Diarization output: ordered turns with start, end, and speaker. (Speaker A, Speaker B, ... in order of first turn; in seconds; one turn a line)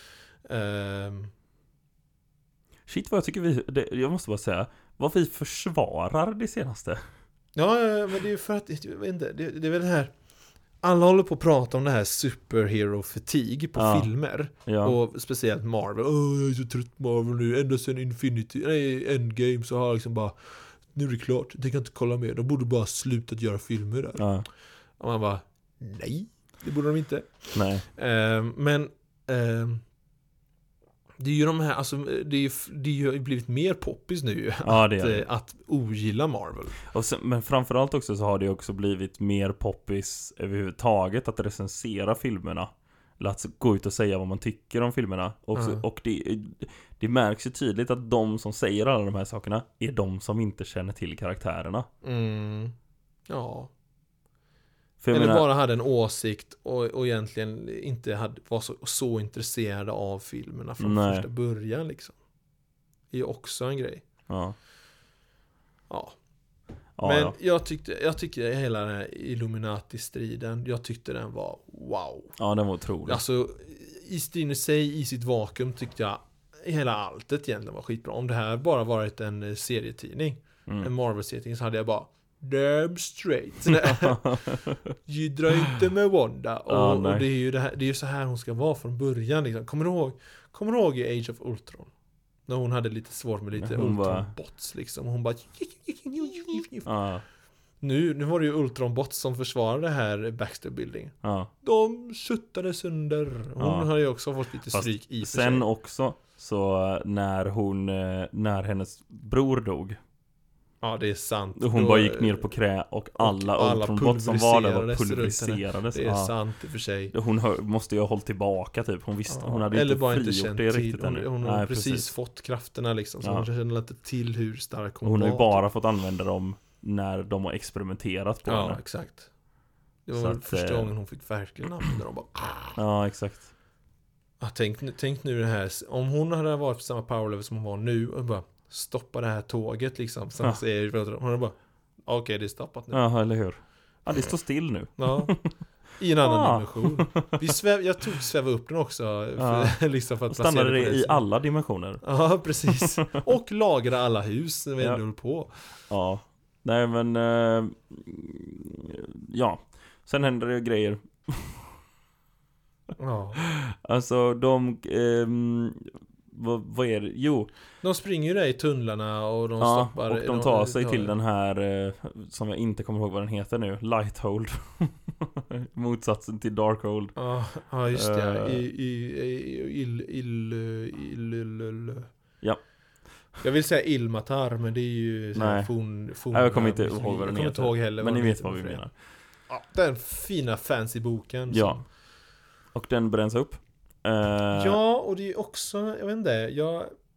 Speaker A: 0.4-1.3
Speaker B: 2.9-7.0
Speaker A: 7.5-10.1
Speaker A: 10.8-24.2
Speaker B: 13.8-14.1
Speaker B: 14.7-15.0
Speaker B: 24.2-24.5
Speaker A: 25.0-29.8
Speaker B: 27.5-27.8
Speaker A: 31.2-36.8
Speaker B: 34.6-35.3
Speaker B: 36.8-51.9
Speaker A: 45.5-45.8
Speaker A: 52.0-52.7
Speaker A: 53.3-53.7
Speaker B: 55.0-55.5
Speaker A: 55.1-62.1
Speaker B: 60.8-61.2
Speaker A: 63.1-64.0
Speaker B: 64.3-64.5
Speaker A: 65.9-66.2
Speaker B: 67.0-67.3
Speaker A: 67.0-72.3
Speaker B: 72.4-73.2
Speaker A: 73.0-91.9
Speaker B: 83.7-84.9
Speaker B: 86.7-87.2
Speaker A: 92.5-96.9
Speaker B: 93.5-94.3
Speaker B: 96.8-97.2
Speaker A: 97.8-105.6
Speaker B: 101.2-101.5
Speaker B: 103.6-103.9
Speaker B: 104.7-110.0
Speaker A: 110.8-112.5
Speaker B: 111.5-116.3
Speaker A: 113.2-117.1
Speaker B: 117.1-122.1
Speaker A: 119.3-125.6
Speaker B: 125.0-128.8
Speaker A: 128.4-129.3
Speaker A: 130.1-132.8
Speaker B: 130.2-130.9
Speaker B: 132.8-133.5
Speaker A: 134.4-143.0
Speaker B: 142.9-145.5
Speaker A: 145.0-145.3
Speaker A: 146.0-151.2
Speaker B: 146.2-147.4
Speaker B: 149.4-149.8
Speaker B: 150.3-152.0
Speaker A: 152.0-155.5
Speaker B: 152.7-153.0
Speaker B: 155.9-161.7
Speaker A: 163.0-163.4
Speaker B: 163.4-167.5
Speaker A: 167.8-171.1
Speaker B: 169.6-177.1
Speaker A: 177.2-182.1
Speaker B: 177.9-178.6
Speaker A: 183.4-188.8
Speaker B: 185.3-185.7
Speaker B: 186.3-188.9
Speaker A: 189.5-191.8
Speaker B: 191.5-191.8
Speaker B: 192.7-194.8
Speaker A: 194.5-196.9